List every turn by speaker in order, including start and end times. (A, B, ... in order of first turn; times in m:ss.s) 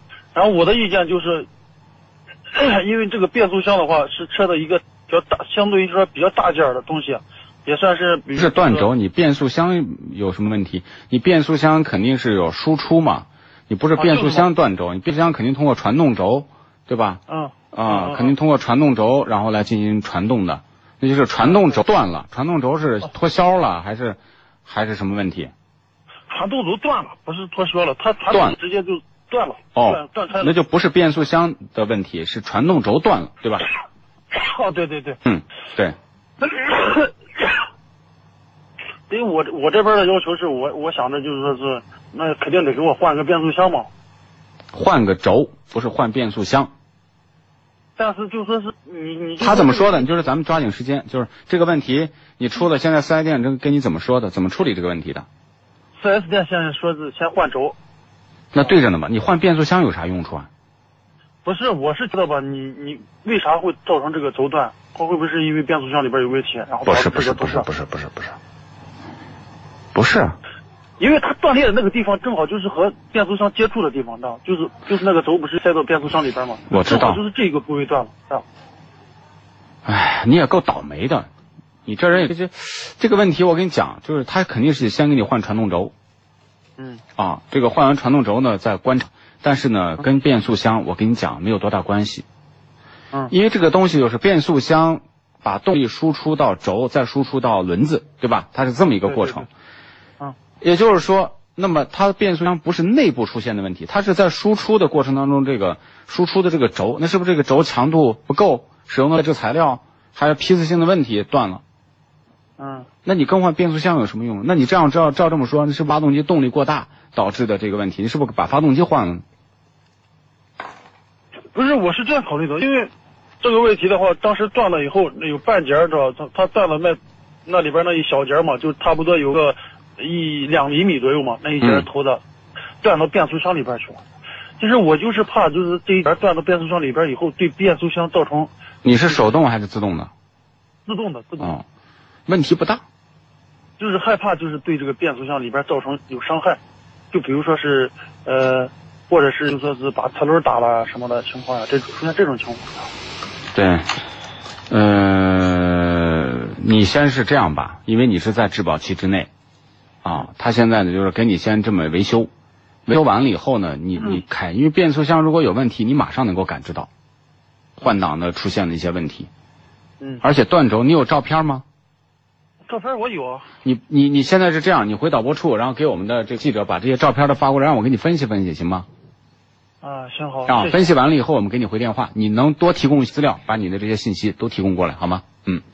0:00.4-0:01.5 A
0:02.5-0:08.9 A
0:08.4-0:17.2 B
0:14.0-0:14.5 A
0:17.3-0:18.4 A
0:17.7-0:25.5 B
0:21.4-0:21.8 A
0:26.3-0:30.5 A
0:28.3-0:28.6 B
0:29.8-0:33.7 B
0:34.3-0:35.2 A
0:35.2-0:36.0 B
0:36.4-0:37.1 A
0:39.1-0:43.9 A
0:44.7-0:46.7 B
0:48.0-0:50.1 A
0:49.4-0:55.3 B
0:56.0-0:57.8 A
0:58.5-1:00.5 B
1:01.4-1:07.7 A
1:06.9-1:08.4 B
1:09.9-1:10.4 B
1:11.0-1:18.4 A
1:16.7-1:17.2 B
1:19.8-1:21.3 B
1:21.9-1:25.9 B
1:27.2-1:32.2 B
1:33.3-1:39.5 B
1:39.1-1:39.5 A
1:40.6-1:51.6 B
1:52.6-1:52.9 A
1:53.0-1:59.2 B
2:01.5-2:02.9 A
2:03.4-2:12.2 A
2:11.6-2:11.9 B
2:12.8-2:14.0 A
2:14.6-2:19.3 A
2:18.8-2:20.1 B
2:20.9-2:21.5 A
2:21.4-2:21.6 B
2:22.3-2:22.8 B
2:23.8-2:26.6 A
2:27.1-2:32.9 A
2:33.5-2:33.9 B
2:34.7-2:39.3 B
2:40.0-2:42.3 B
2:42.9-2:46.9 B
2:47.8-2:49.3 B
2:50.2-2:51.6 B
2:52.7-2:53.5 A
2:53.6-2:58.9 B
2:59.8-3:00.9 A
3:00.5-3:05.6 B